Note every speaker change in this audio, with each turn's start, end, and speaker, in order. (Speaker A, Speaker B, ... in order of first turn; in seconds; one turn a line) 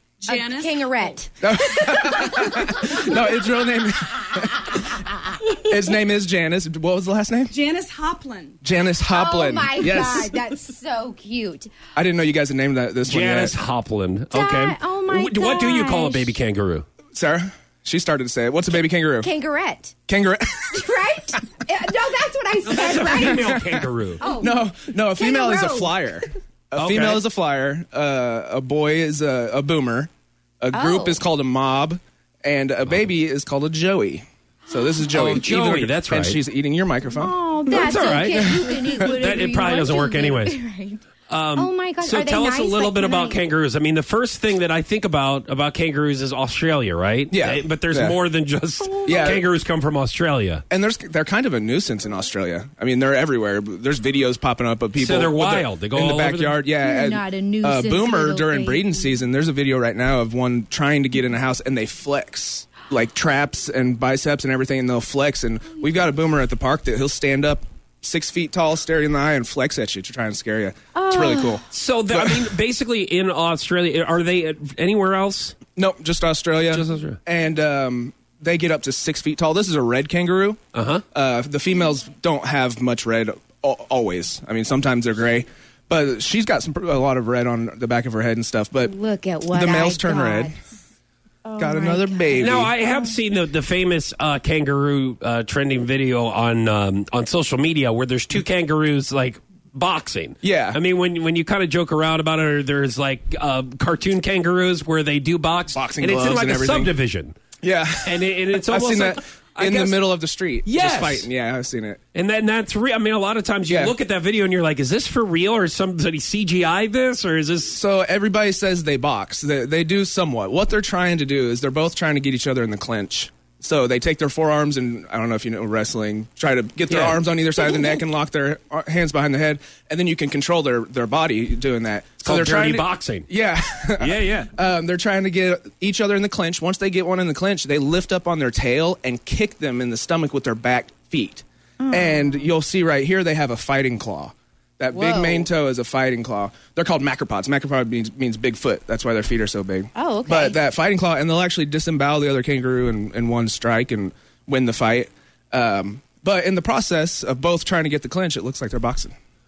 Speaker A: 0.2-1.1
Speaker B: 0.3-3.4
Speaker C: 1.4-7.5
Speaker B: 4.6-5.0
Speaker A: 7.5-8.6
Speaker C: 8.6-10.4
Speaker B: 9.1-11.8
Speaker C: 11.9-13.5
Speaker D: 13.1-16.8
Speaker B: 14.3-16.3
Speaker C: 17.1-19.3
Speaker B: 19.2-19.9
Speaker C: 20.1-20.8
Speaker B: 20.7-26.1
Speaker D: 22.6-24.3
Speaker C: 23.0-23.6
Speaker C: 24.4-37.8
Speaker D: 26.8-27.2
Speaker B: 30.7-31.2
Speaker D: 35.1-36.4
Speaker B: 37.1-43.4
Speaker D: 37.7-40.6
Speaker C: 38.4-39.4
Speaker D: 41.3-50.6
Speaker C: 47.3-48.2
Speaker B: 48.8-49.3
Speaker C: 49.0-49.4
Speaker C: 50.7-72.5
Speaker D: 55.0-56.6
Speaker B: 56.8-59.2
Speaker B: 71.0-71.6
Speaker D: 71.7-75.5
Speaker C: 75.8-80.6
Speaker D: 76.7-77.2
Speaker D: 80.7-81.0
Speaker C: 81.1-88.9
Speaker B: 88.8-90.5
Speaker C: 89.5-90.5
Speaker B: 91.4-93.1
Speaker C: 91.6-92.7
Speaker D: 92.3-107.3
Speaker C: 100.4-100.8
Speaker C: 105.7-106.9
Speaker C: 107.6-112.0
Speaker D: 108.0-110.0
Speaker D: 110.6-111.3
Speaker D: 112.1-117.8
Speaker C: 113.7-114.0
Speaker C: 117.7-159.1
Speaker D: 126.9-127.2
Speaker D: 132.2-133.3
Speaker D: 134.0-134.5
Speaker B: 141.8-142.4
Speaker B: 144.9-145.5
Speaker B: 149.9-150.6